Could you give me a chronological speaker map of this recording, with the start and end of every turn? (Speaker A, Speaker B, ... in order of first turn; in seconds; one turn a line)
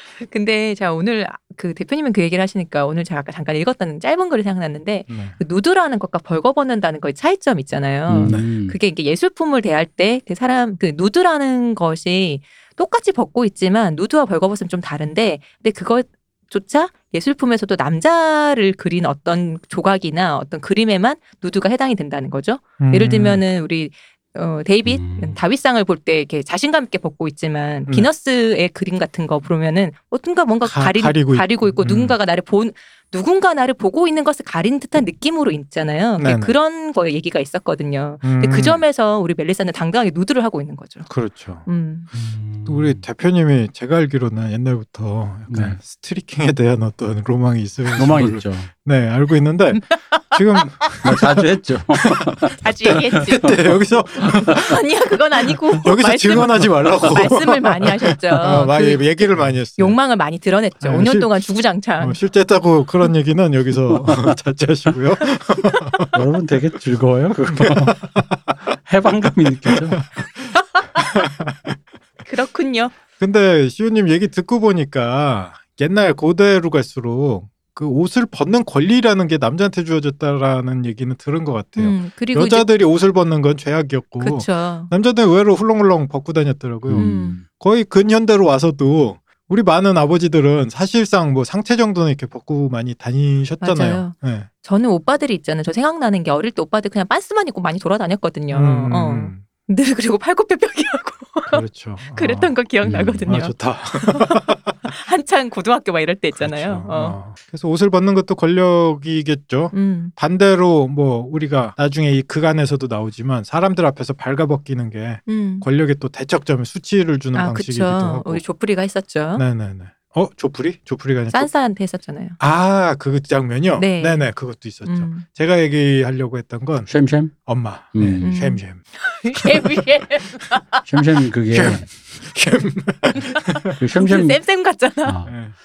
Speaker A: 0.1-41.1
Speaker B: 5.1-5.4
Speaker C: 8.1-8.8
Speaker B: 8.2-8.5
Speaker B: 22.8-23.4
Speaker C: 24.9-25.4
Speaker B: 30.6-32.2
Speaker B: 36.2-36.5
Speaker B: 38.2-38.8
Speaker B: 41.1-54.8
Speaker A: 41.6-42.1
Speaker C: 42.1-43.0
Speaker C: 45.5-45.8
Speaker C: 48.0-48.7
Speaker A: 49.8-50.3
Speaker C: 51.0-53.8
Speaker A: 52.5-53.6
Speaker A: 54.4-59.2
Speaker B: 55.8-60.0
Speaker A: 59.8-62.2
Speaker B: 60.8-61.3
Speaker B: 62.0-66.2
Speaker C: 63.9-64.3
Speaker C: 66.1-68.0
Speaker B: 67.5-68.6
Speaker C: 68.8-70.0
Speaker B: 69.7-70.0
Speaker A: 70.6-71.1
Speaker B: 71.0-71.7
Speaker A: 72.2-72.9
Speaker B: 73.2-94.5
Speaker A: 81.8-82.7
Speaker A: 84.2-84.9
Speaker C: 86.8-87.4
Speaker A: 87.0-87.4
Speaker A: 93.6-101.6
Speaker B: 98.5-99.4
Speaker B: 101.5-102.6
Speaker A: 102.1-107.2
Speaker C: 102.8-103.3
Speaker B: 103.3-104.8
Speaker B: 106.3-118.4
Speaker A: 109.7-110.1
Speaker A: 115.3-115.7
Speaker A: 117.3-119.4
Speaker B: 119.4-121.5
Speaker A: 121.3-122.4
Speaker B: 122.4-126.9
Speaker A: 123.8-124.3
Speaker A: 124.8-125.2
Speaker C: 126.9-127.4
Speaker B: 127.5-128.8
Speaker C: 127.9-128.3
Speaker A: 128.2-130.8
Speaker B: 129.4-129.8
Speaker C: 130.8-131.9
Speaker B: 131.5-133.8
Speaker C: 133.8-134.4
Speaker A: 133.9-135.2
Speaker C: 135.0-135.3
Speaker B: 135.3-135.6